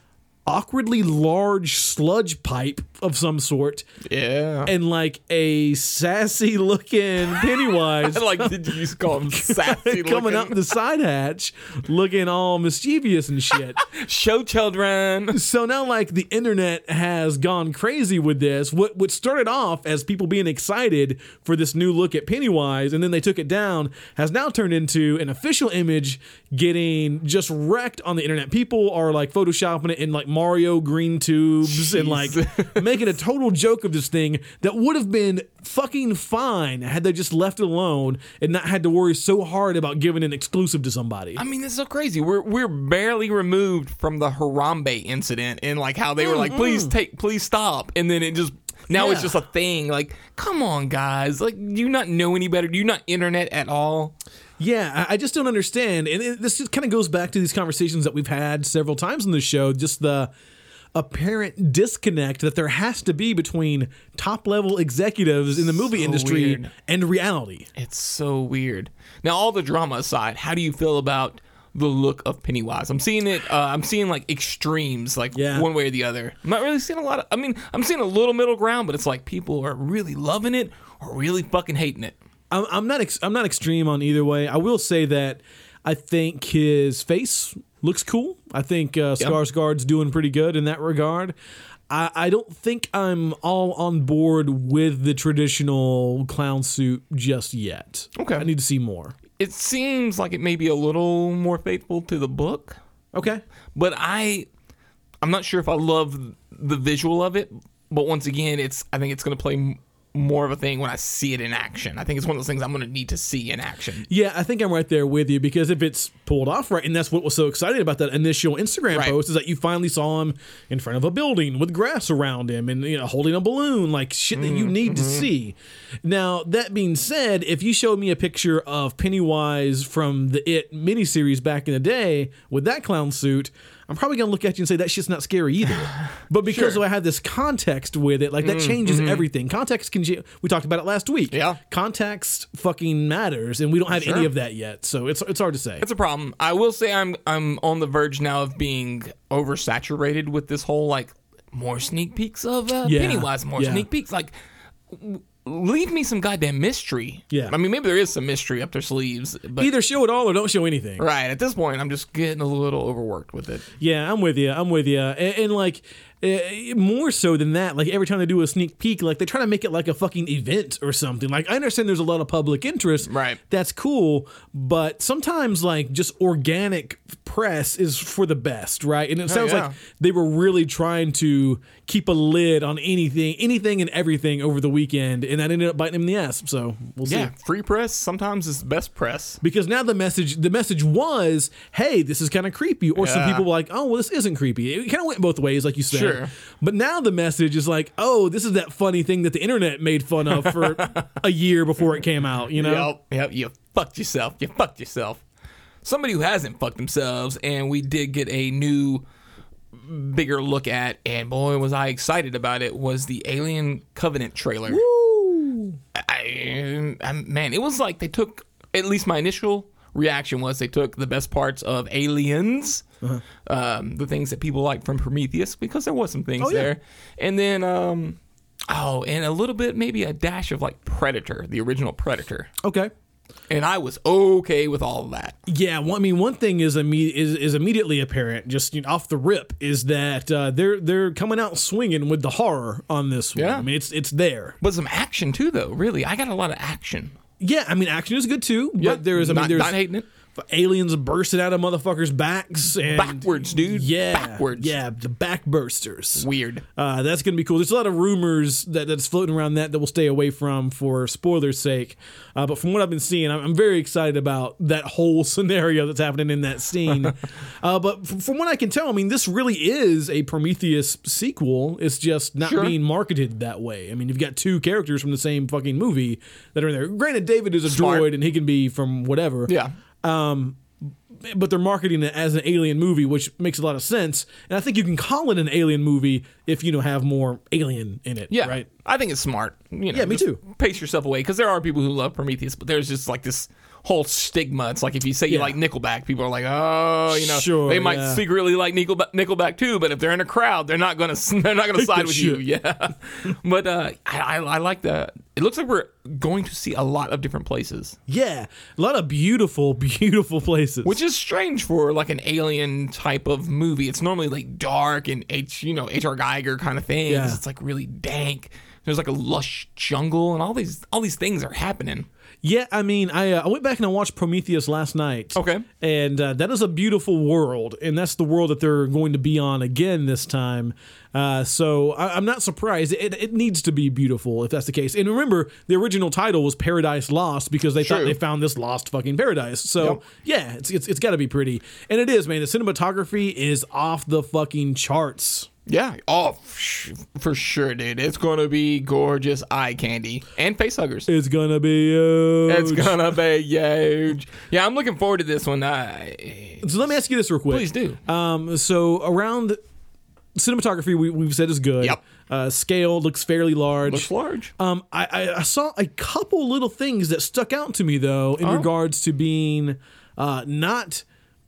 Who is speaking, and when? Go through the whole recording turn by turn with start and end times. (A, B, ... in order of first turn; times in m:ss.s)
0:00.5-0:03.9 A
0:04.0-0:04.7 B
0:04.6-0:13.8 A
0:07.9-0:10.6 B
0:13.8-0:15.4 B
0:15.3-0:41.4 A
0:31.6-0:32.8 B
0:41.4-0:54.2 B
0:46.2-0:46.9 A
0:48.9-0:49.4 A
0:54.6-1:00.3 A
1:00.9-1:07.7 A
1:05.7-1:06.7 B
1:07.8-1:22.2 B
1:15.3-1:15.7 A
1:22.5-1:31.4 A
1:31.9-1:39.2 A
1:38.2-1:38.5 B
1:39.4-1:42.8 B
1:43.1-1:43.4 A
1:43.8-1:44.5 B
1:45.2-1:54.1 B
1:54.1-2:25.8 A
1:58.9-1:59.2 B
2:04.3-2:05.3 B
2:15.9-2:16.8 B
2:18.4-2:19.3 B
2:21.3-2:21.6 B
2:23.9-2:24.3 B
2:25.8-2:34.3 B
2:32.8-2:33.9 A
2:34.9-2:39.7 B
2:39.6-2:41.0 A
2:41.0-2:43.7 B
2:43.8-3:07.3 A
2:53.0-2:53.4 B
2:59.3-2:59.8 B
3:07.1-3:09.4 B
3:09.4-3:22.9 A
3:13.0-3:13.4 B
3:15.9-3:16.3 B
3:20.3-3:21.1 B
3:22.5-3:25.2 B
3:25.8-3:29.0 B
3:29.8-3:34.8 B
3:34.7-3:35.8 A
3:36.0-3:42.8 B
3:43.4-3:52.5 B
3:46.4-3:46.7 A
3:52.6-3:52.9 A
3:53.5-3:55.4 B
3:55.5-4:04.6 A
4:03.4-4:03.7 B
4:04.6-4:07.2 B
4:07.4-4:09.8 A
4:08.8-4:10.1 B
4:10.4-4:39.5 A
4:12.9-4:14.8 B
4:16.2-4:16.6 B
4:32.4-4:32.8 B
4:37.7-4:38.1 B
4:39.5-4:39.8 B
4:40.0-4:40.6 A
4:41.2-4:48.7 A
4:48.3-5:08.0 B
4:49.9-4:50.4 A
4:55.3-4:55.6 A
4:57.1-4:58.2 A
5:01.8-5:02.4 A
5:08.1-5:11.0 A
5:10.8-5:22.1 B
5:17.1-5:17.4 A
5:22.4-5:45.5 A
5:25.4-5:25.7 B
5:37.8-5:38.2 B
5:45.7-5:51.1 B
5:51.1-5:53.2 A
5:52.5-5:56.7 B
5:56.6-5:59.6 A
5:57.5-5:58.0 B
6:00.4-6:11.0 A
6:03.8-6:04.5 B
6:08.4-6:08.7 B